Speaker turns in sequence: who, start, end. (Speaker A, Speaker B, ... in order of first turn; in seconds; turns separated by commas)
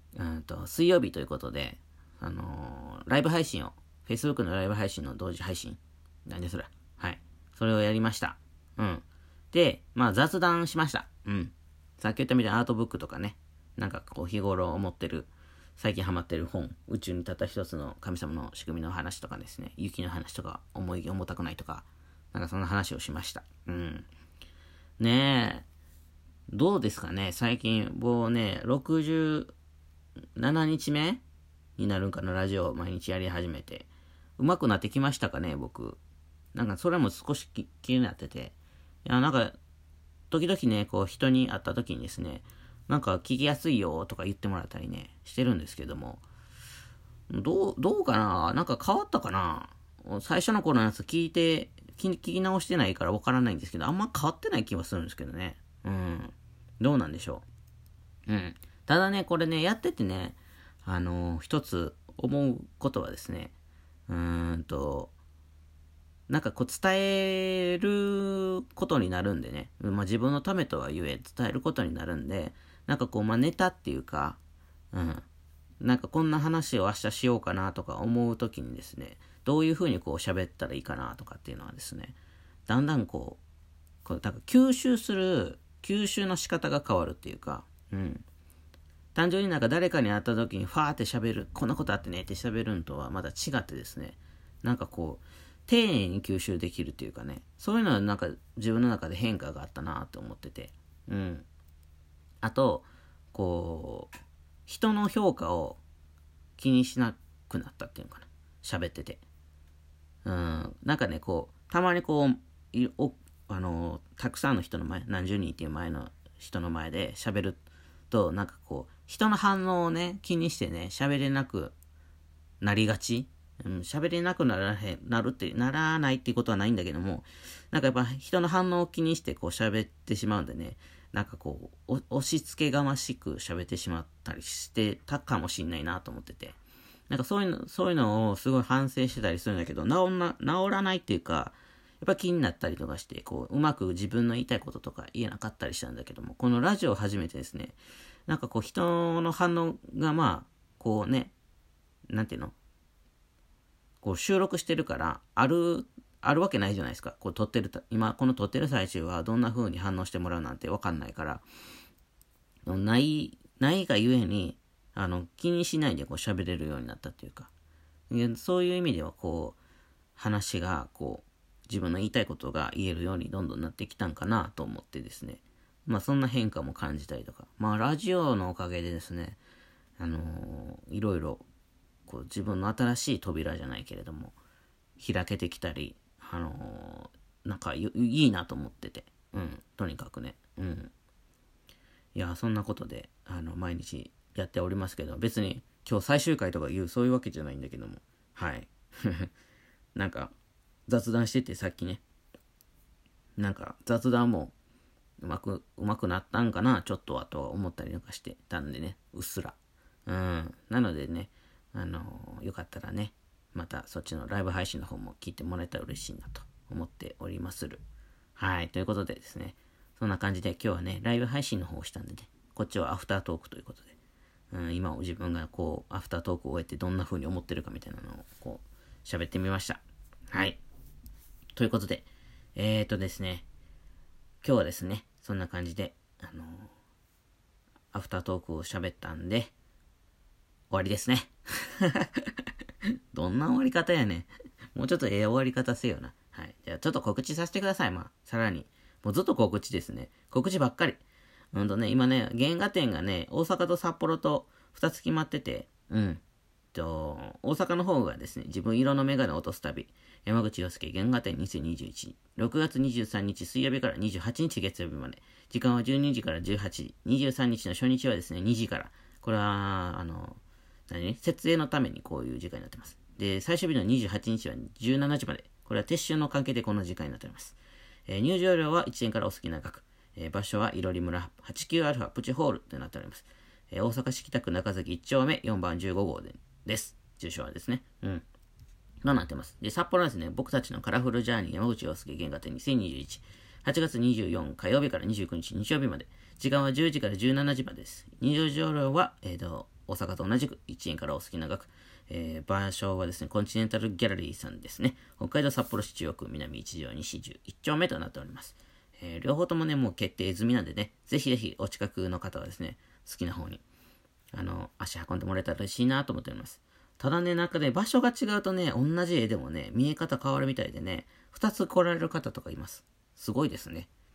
Speaker A: 0.1-24.1, Speaker A: 25.0-25.6, Speaker A: 26.5-29.5, Speaker A: 30.4-31.2, Speaker A: 31.8-36.0, Speaker A: 36.5-39.5, Speaker A: 40.3-46.2, Speaker A: 47.3-57.4, Speaker A: 58.3-63.5, Speaker A: 64.1-65.1, Speaker A: 66.3-74.4, Speaker A: 74.9-75.2, Speaker A: 75.8-82.2, Speaker A: 82.7-83.4, Speaker A: 84.0-88.2, Speaker A: 89.1-101.5, Speaker A: 102.4-104.1, Speaker A: 104.7-105.8, Speaker A: 106.6-109.2, Speaker A: 110.2-121.7, Speaker A: 122.6-136.6, Speaker A: 137.1-147.8, Speaker A: 148.3-151.3, Speaker A: 152.1-152.5, Speaker A: 154.0-161.4, Speaker A: 162.7-167.5, Speaker A: 168.1-169.6, Speaker A: 170.2-179.4, Speaker A: 180.0-181.4, Speaker A: 182.1-184.3, Speaker A: 185.0-190.9, Speaker A: 192.1-199.3, Speaker A: 199.9-200.3, Speaker A: 200.9-202.0, Speaker A: 203.4-204.5, Speaker A: 205.2-217.8, Speaker A: 218.4-223.9, Speaker A: 224.5-230.6, Speaker A: 231.5-233.4, Speaker A: 234.4-236.7, Speaker A: 237.9-239.5, Speaker A: 240.7-242.3, Speaker A: 243.1-251.0, Speaker A: 251.5-256.2, Speaker A: 256.7-288.2, Speaker A: 289.0-313.6, Speaker A: 314.3-323.9